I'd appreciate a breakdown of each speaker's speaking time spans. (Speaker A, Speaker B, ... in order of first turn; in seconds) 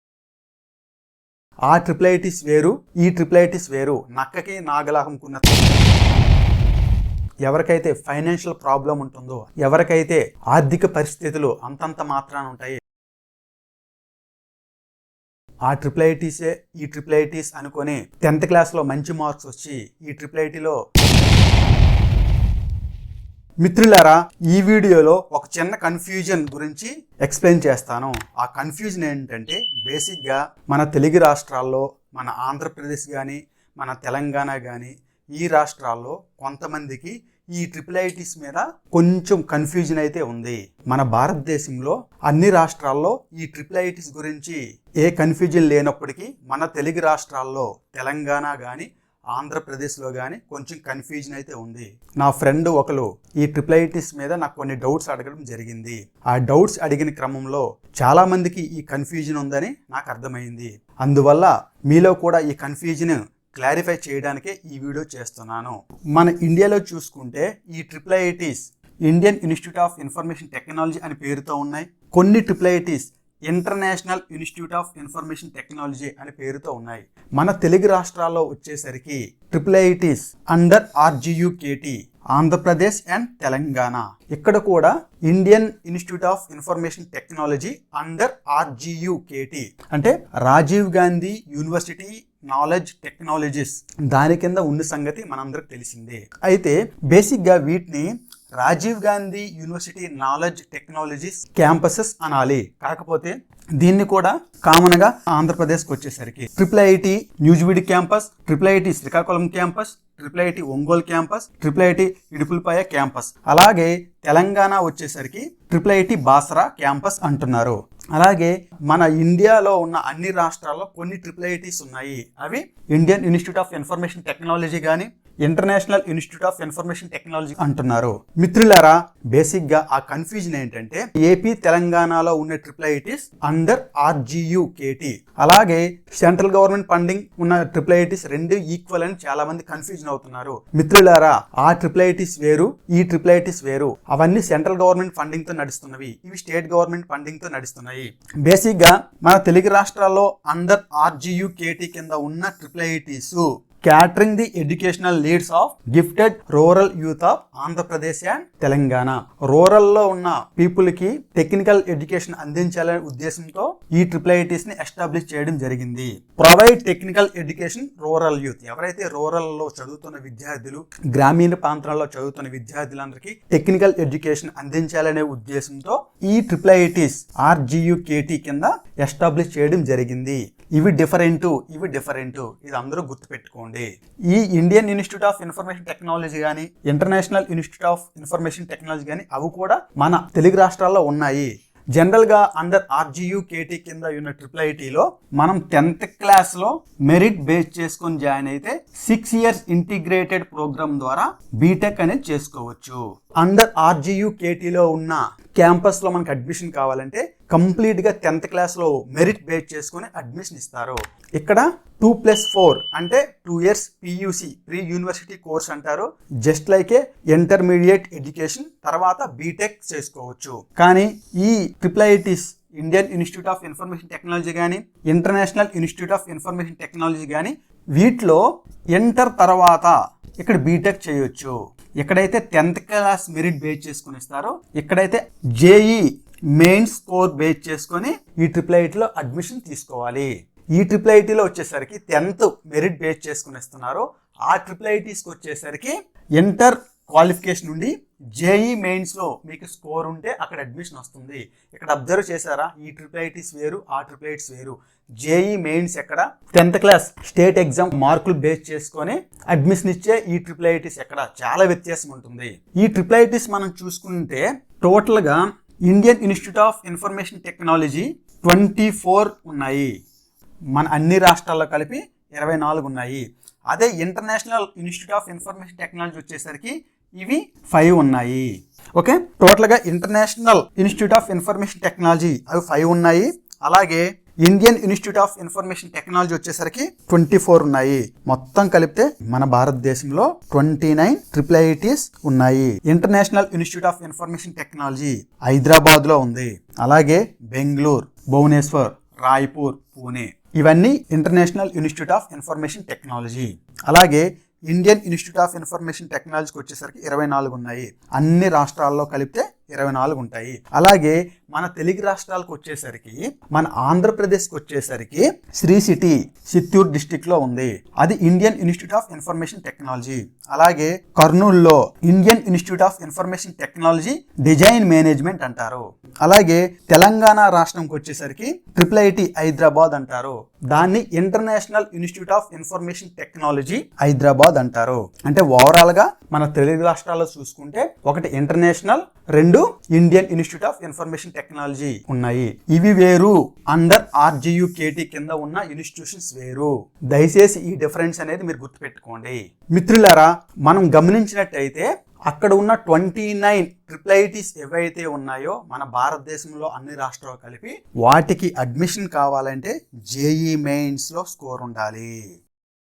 Speaker A: 1.7-5.7, 7.5-12.8, 15.7-20.8, 23.6-228.4, 228.9-236.0, 236.6-269.9, 270.7-362.1